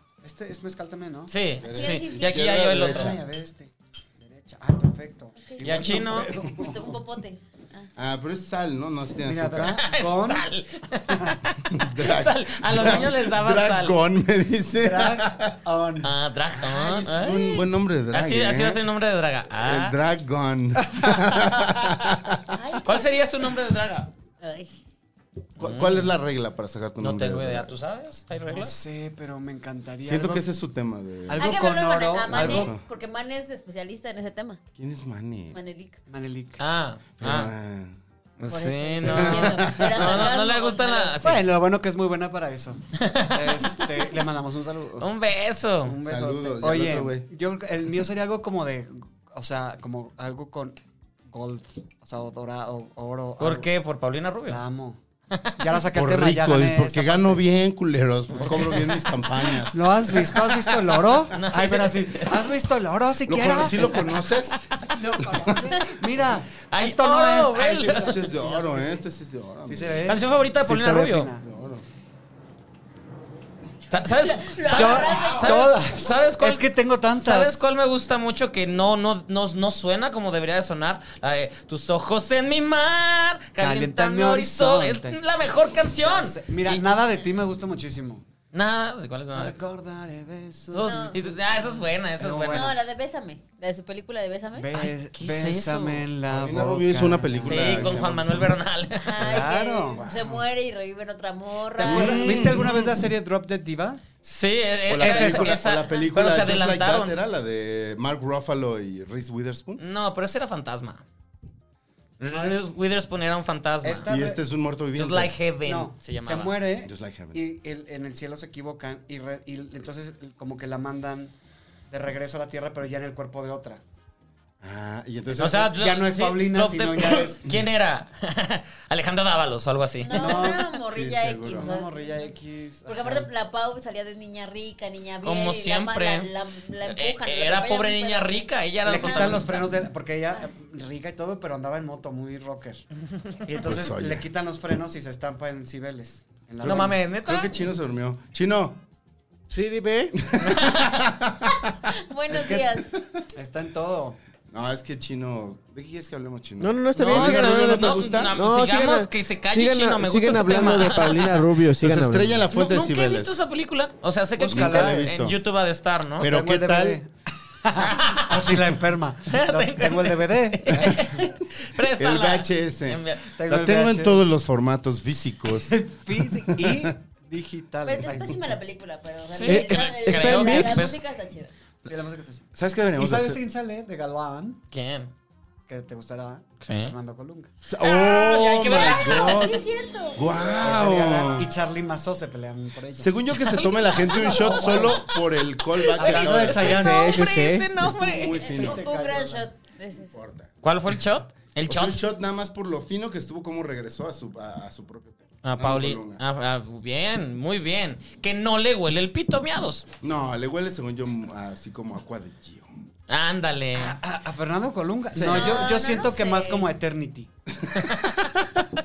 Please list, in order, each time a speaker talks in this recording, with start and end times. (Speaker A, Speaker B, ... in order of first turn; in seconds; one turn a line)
Speaker A: 0.2-1.3
Speaker B: 1.3-3.2
Speaker C: 1.6-3.2
Speaker D: 1.7-2.5
Speaker A: 2.8-6.6
Speaker D: 5.5-5.8
Speaker B: 5.6-6.3
Speaker C: 5.9-7.0
Speaker D: 6.4-7.9
Speaker C: 8.0-9.8
Speaker A: 9.2-10.5
Speaker B: 9.6-14.0
Speaker A: 11.1-11.4
Speaker C: 11.7-15.6
Speaker A: 14.8-17.3
Speaker B: 16.0-17.5
Speaker C: 17.1-18.8
Speaker B: 18.1-19.9
Speaker C: 19.5-22.6
Speaker D: 22.5-23.1
Speaker B: 22.8-24.1
Speaker D: 24.4-24.7
Speaker B: 25.6-26.1
Speaker C: 25.6-27.7
Speaker B: 27.0-28.7
Speaker A: 28.5-30.5
Speaker C: 30.0-31.6
Speaker A: 31.3-32.7
Speaker D: 31.4-34.6
Speaker C: 32.3-32.8
Speaker C: 34.8-35.6
Speaker D: 35.5-36.0
Speaker A: 36.1-36.6
Speaker B: 36.6-37.5
Speaker C: 37.2-38.0
Speaker B: 38.4-41.4
Speaker D: 38.5-41.2
Speaker C: 39.0-40.2
Speaker A: 41.2-45.1
Speaker B: 43.0-43.8
Speaker B: 45.0-46.0
Speaker A: 45.8-50.7
Speaker C: 46.0-47.3
Speaker A: 51.3-53.7
Speaker B: 53.4-54.6
Speaker A: 54.5-55.0
Speaker A: 55.5-57.4
Speaker C: 55.9-61.2
Speaker B: 58.5-59.0
Speaker A: 59.7-64.1
Speaker B: 61.3-62.4
Speaker C: 63.3-65.6
Speaker A: 64.8-69.0
Speaker B: 66.7-68.2
Speaker C: 67.5-70.1
Speaker A: 69.6-71.5
Speaker B: 70.1-71.3
Speaker C: 71.4-71.8
Speaker B: 73.9-86.8
Speaker D: 74.2-75.8
Speaker A: 74.6-77.6
Speaker A: 83.6-85.2
Speaker A: 86.0-88.2
Speaker B: 88.5-89.5
Speaker A: 89.3-92.8
Speaker B: 90.7-92.8
Speaker D: 90.8-91.2
Speaker D: 92.5-94.7
Speaker A: 94.5-98.1
Speaker B: 94.7-96.0
Speaker C: 96.3-98.6
Speaker B: 97.4-99.3
Speaker D: 99.0-102.4
Speaker A: 99.2-100.0
Speaker C: 100.0-100.5
Speaker A: 101.8-104.0
Speaker C: 101.8-102.7
Speaker B: 102.3-102.7
Speaker B: 104.2-107.2
Speaker C: 104.9-109.8
Speaker A: 105.0-105.5
Speaker B: 109.8-111.0
Speaker B: 112.2-114.1
Speaker A: 112.2-112.6
Speaker A: 113.8-114.4
Speaker C: 114.1-115.3
Speaker B: 115.0-116.5
Speaker A: 115.6-121.3
Speaker C: 116.8-117.4
Speaker A: 121.9-123.8
Speaker C: 124.6-125.8
Speaker B: 125.4-130.6
Speaker A: 125.7-127.4
Speaker D: 130.0-132.3
Speaker A: 130.1-130.7
Speaker C: 130.8-131.7
Speaker A: 131.5-133.3
Speaker D: 132.9-139.7
Speaker B: 135.2-136.3
Speaker B: 136.8-139.7
Speaker A: 138.8-142.8
Speaker A: 143.4-147.0
Speaker C: 143.6-144.3
Speaker C: 146.6-148.8
Speaker B: 146.6-147.5
Speaker E: 149.5-150.2
Speaker C: 150.2-151.9
Speaker B: 150.4-151.1
Speaker D: 151.9-152.9
Speaker A: 152.3-152.8
Speaker A: 153.3-154.2
Speaker C: 154.5-158.3
Speaker E: 156.6-162.4
Speaker B: 156.9-161.4
Speaker C: 161.8-163.4
Speaker B: 162.5-166.3
Speaker A: 164.4-165.1
Speaker C: 164.4-165.4
Speaker C: 166.2-167.0
Speaker A: 166.2-167.1
Speaker A: 167.6-171.3
Speaker B: 167.8-168.6
Speaker B: 169.3-173.3
Speaker C: 172.0-176.9
Speaker A: 173.3-174.2
Speaker A: 175.6-178.5
Speaker D: 177.8-181.5
Speaker B: 179.3-180.9
Speaker E: 179.4-180.9
Speaker A: 181.8-184.6
Speaker C: 182.5-183.4
Speaker B: 184.7-185.1
Speaker A: 185.7-187.5
Speaker B: 186.6-186.9
Speaker C: 187.7-191.5
Speaker B: 187.8-189.6
Speaker D: 188.8-190.6
Speaker A: 190.6-193.1
Speaker C: 192.9-196.9
Speaker B: 193.3-194.8
Speaker D: 193.9-195.0
Speaker A: 194.2-195.1
Speaker B: 195.8-198.4
Speaker A: 195.9-197.2
Speaker E: 196.7-197.8
Speaker C: 197.8-198.8
Speaker D: 198.2-200.2
Speaker A: 198.4-199.5
Speaker C: 200.1-200.5
Speaker B: 200.6-201.9
Speaker C: 201.7-206.2
Speaker B: 205.4-209.9
Speaker C: 210.0-212.7
Speaker B: 213.1-214.0
Speaker A: 213.7-217.3
Speaker D: 215.2-216.7
Speaker B: 215.2-215.7
Speaker B: 217.8-218.1